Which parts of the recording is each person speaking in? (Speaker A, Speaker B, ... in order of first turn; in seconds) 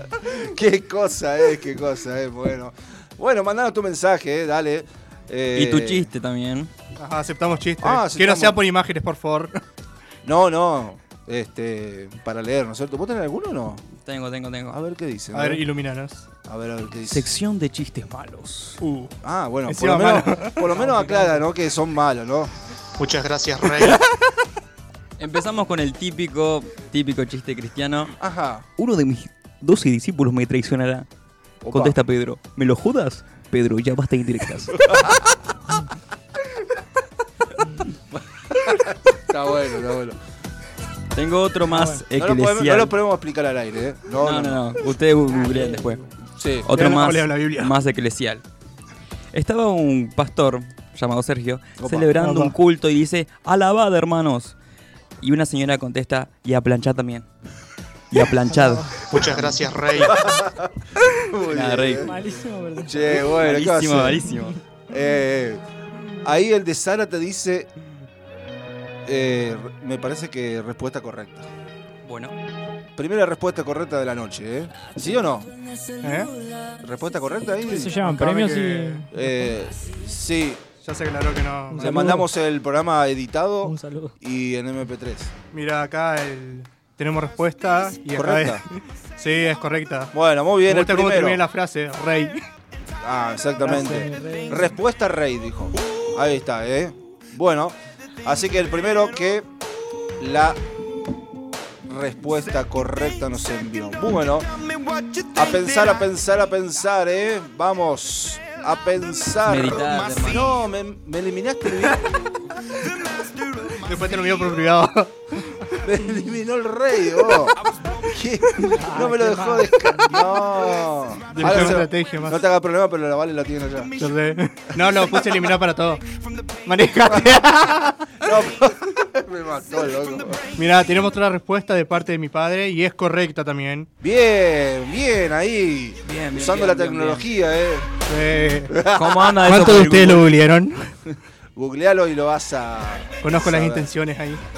Speaker A: 0.2-6.1, 7.8-8.6, 10.2-13.8, 14.7-15.6, 16.4-17.3, 19.2-22.5, 28.2-28.6, 31.6-32.0, 34.8-35.2, 38.1-40.2, 42.1-44.6, 46.4-46.7, 51.8-52.1, 59.2-62.1, 62.8-64.3, 64.9-65.6, 66.2-67.7, 69.0-71.5, 73.0-75.5, 76.8-78.0, 79.1-80.6, 81.8-85.3, 88.1-88.6, 90.1-91.4, 93.0-99.5, 100.2-100.6, 101.8-104.5, 105.3-112.1, 115.8-117.6, 118.1-123.9, 128.2-130.4, 134.0-137.9, 138.7-139.7, 141.6-143.9
Speaker B: 5.5-6.7, 14.0-14.8, 17.1-18.8, 25.2-28.1, 28.8-31.1, 31.7-34.8, 41.1-42.9, 44.2-46.1, 46.6-48.4, 49.3-54.5, 55.2-57.3, 58.1-59.0, 61.5-62.0, 63.3-64.5, 72.0-72.3, 109.5-110.5, 121.3-121.8, 136.0-137.3, 138.9-140.3
Speaker C: 7.0-9.6, 15.3-16.3, 18.8-19.1, 19.7-20.8, 46.7-47.8, 52.2-52.5, 76.0-76.3, 77.9-79.0, 80.8-82.2, 85.5-90.1, 90.7-92.4, 113.8-115.1, 121.4-122.4, 124.0-126.0, 126.7-128.1, 130.6-133.9, 138.1-138.8, 139.4-140.9, 143.2-144.4
Speaker D: 23.0-24.0, 59.1-60.1, 98.8-99.0, 104.1-106.1, 108.9-110.5, 112.7-114.8, 117.5-118.2, 121.1-121.6, 123.8-127.3, 129.7-130.9
Speaker E: 41.7-42.0, 45.3-46.1, 58.5-59.1, 62.0-63.3, 77.6-79.0, 81.7-82.3, 83.6-84.2, 93.6-94.8, 118.7-120.5